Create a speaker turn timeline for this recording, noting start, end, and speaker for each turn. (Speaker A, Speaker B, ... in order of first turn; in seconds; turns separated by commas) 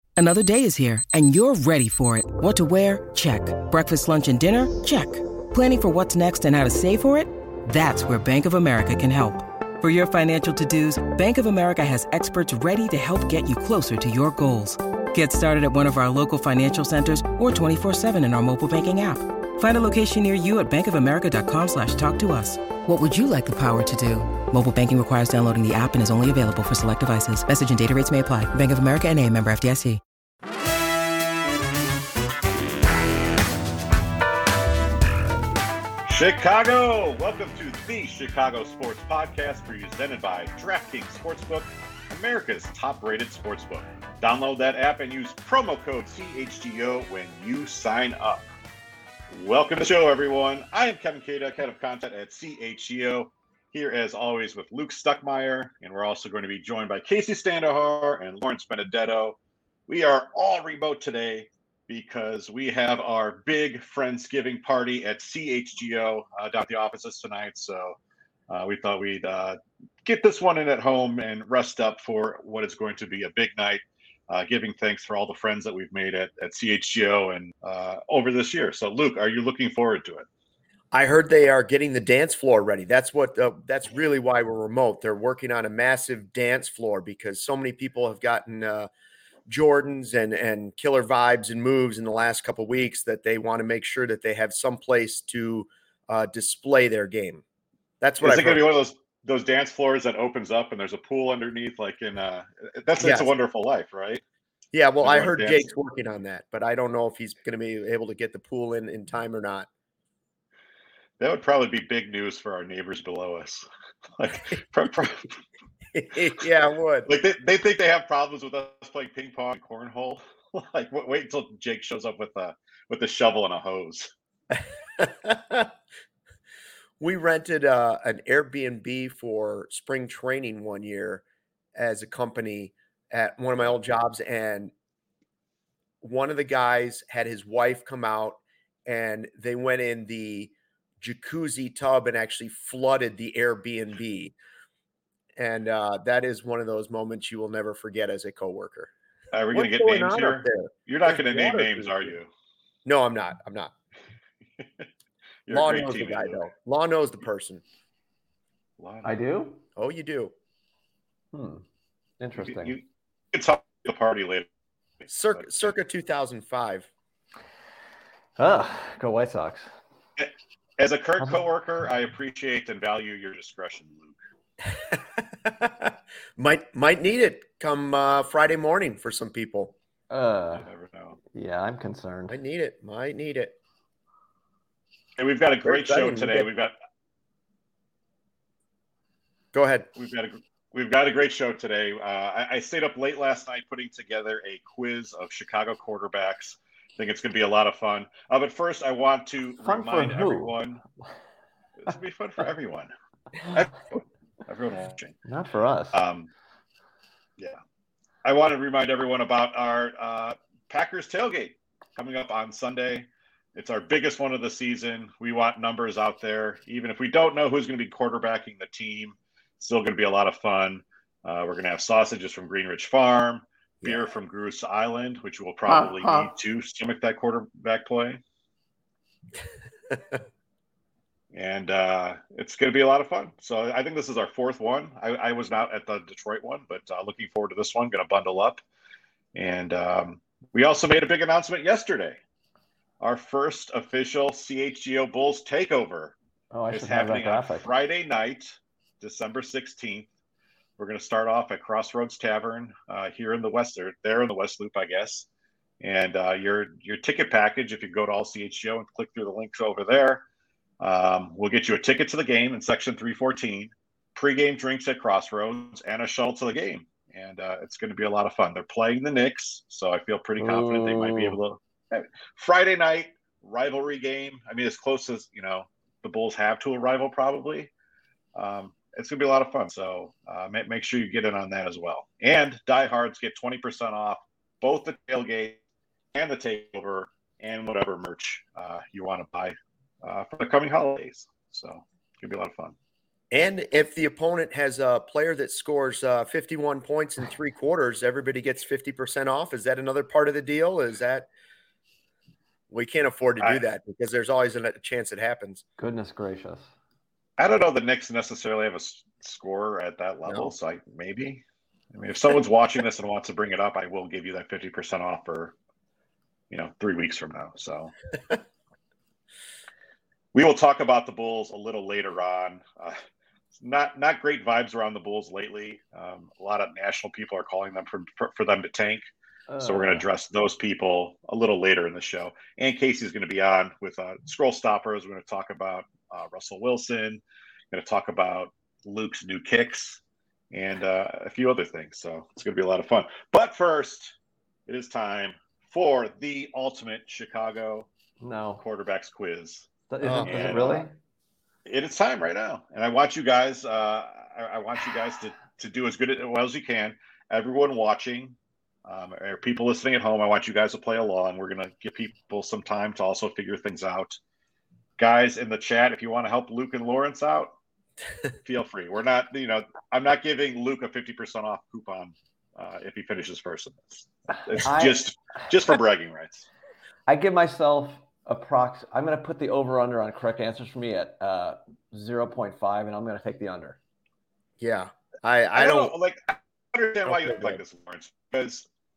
Speaker A: 0.2-30.0, Speaker B: 36.1-48.5, Speaker B: 49.3-68.0, Speaker B: 68.5-80.2, Speaker C: 80.9-88.9, Speaker C: 89.5-97.4, Speaker C: 98.0-98.7, Speaker B: 98.2-104.2, Speaker C: 103.0-103.3, Speaker C: 104.7-109.7, Speaker B: 105.0-105.7, Speaker B: 111.2-113.7, Speaker B: 114.2-115.4, Speaker C: 115.9-117.1, Speaker B: 117.1-124.1, Speaker C: 124.5-125.7, Speaker C: 127.0-131.2, Speaker C: 131.8-134.7, Speaker C: 136.0-144.3, Speaker C: 145.4-148.9, Speaker B: 149.3-152.3, Speaker C: 149.5-152.1, Speaker C: 152.8-153.7, Speaker B: 154.6-154.8, Speaker B: 155.4-156.5, Speaker C: 155.5-157.6, Speaker B: 158.8-159.2, Speaker D: 159.0-159.6, Speaker C: 159.8-160.3, Speaker D: 161.3-161.6, Speaker D: 162.2-162.8, Speaker B: 162.4-164.5, Speaker B: 165.0-165.7, Speaker C: 165.1-166.9, Speaker D: 168.4-169.7, Speaker B: 170.2-174.2, Speaker C: 174.7-179.8, Speaker D: 180.1-180.7, Speaker B: 180.5-181.2, Speaker D: 181.3-182.4, Speaker C: 182.3-183.6, Speaker B: 185.2-186.7, Speaker C: 185.6-186.5, Speaker C: 189.5-189.9, Speaker B: 189.9-200.8, Speaker D: 199.6-200.6, Speaker B: 201.8-202.9, Speaker B: 203.4-205.1, Speaker D: 205.2-206.0, Speaker B: 205.9-206.3, Speaker B: 208.2-228.2, Speaker C: 223.8-224.1, Speaker C: 225.7-226.3, Speaker B: 231.3-238.6, Speaker B: 239.3-242.2, Speaker B: 243.0-246.2, Speaker D: 246.5-247.7, Speaker B: 246.7-250.1, Speaker B: 250.8-255.2, Speaker B: 255.8-260.2, Speaker B: 260.8-277.7, Speaker D: 270.4-271.4, Speaker B: 278.4-285.6, Speaker B: 286.1-292.8, Speaker C: 293.3-301.3, Speaker C: 302.7-305.6, Speaker D: 305.8-306.7, Speaker B: 307.4-315.6, Speaker B: 316.5-317.9, Speaker B: 320.3-323.0, Speaker B: 323.6-329.1, Speaker D: 329.5-330.1, Speaker B: 329.6-340.0, Speaker B: 340.5-344.1, Speaker B: 344.7-347.9, Speaker D: 348.2-348.6, Speaker B: 348.6-349.7, Speaker D: 349.9-350.9, Speaker C: 350.0-350.7, Speaker B: 350.2-350.9, Speaker B: 351.7-364.2, Speaker B: 365.0-367.6, Speaker B: 368.4-376.5, Speaker D: 374.6-375.0, Speaker D: 377.1-383.8, Speaker C: 384.6-385.9, Speaker B: 385.6-388.7, Speaker C: 387.1-387.6